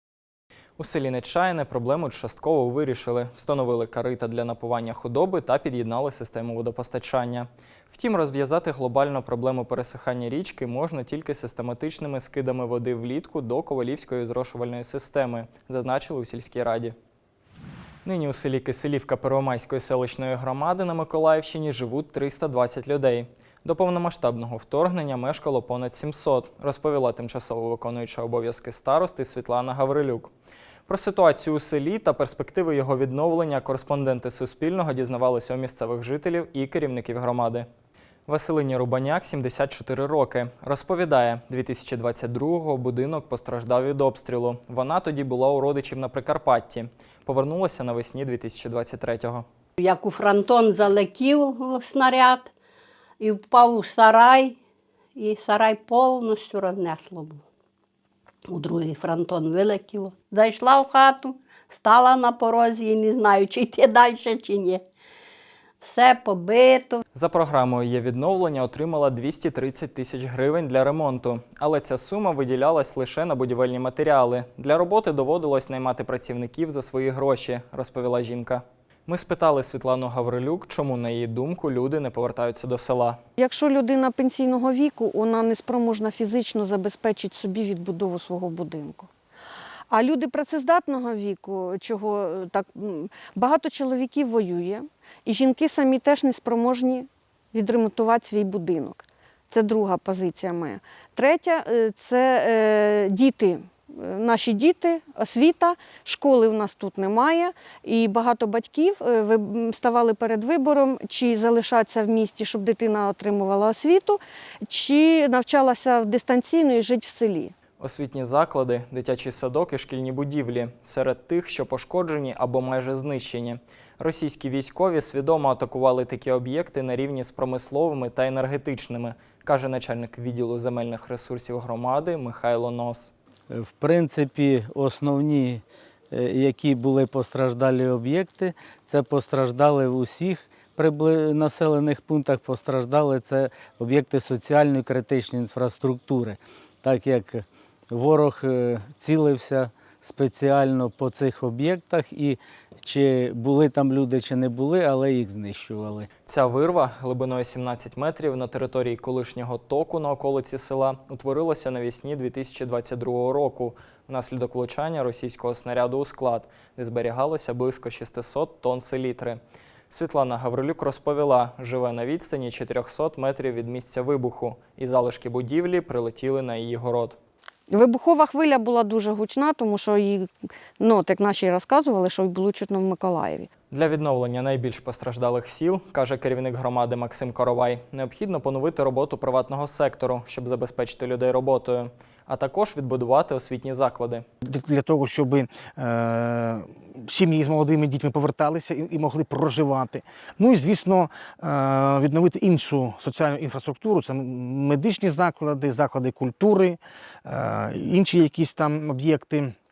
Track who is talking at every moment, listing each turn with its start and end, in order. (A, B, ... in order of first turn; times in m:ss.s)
0:00.8-0:17.0 A
0:18.0-0:30.3 A
0:30.9-0:37.7 A
0:38.3-0:49.5 A
0:49.8-0:52.5 B
0:53.2-0:54.6 B
0:55.2-0:57.4 B
0:58.5-1:04.8 B
1:05.8-1:07.0 B
1:07.2-1:23.2 A
1:23.4-1:29.1 C
1:29.9-1:57.5 C
1:57.8-2:13.1 A
2:13.5-2:36.1 D
2:36.3-2:57.2 A
2:57.7-3:03.5 C
3:03.7-3:14.3 A
3:14.4-3:29.5 E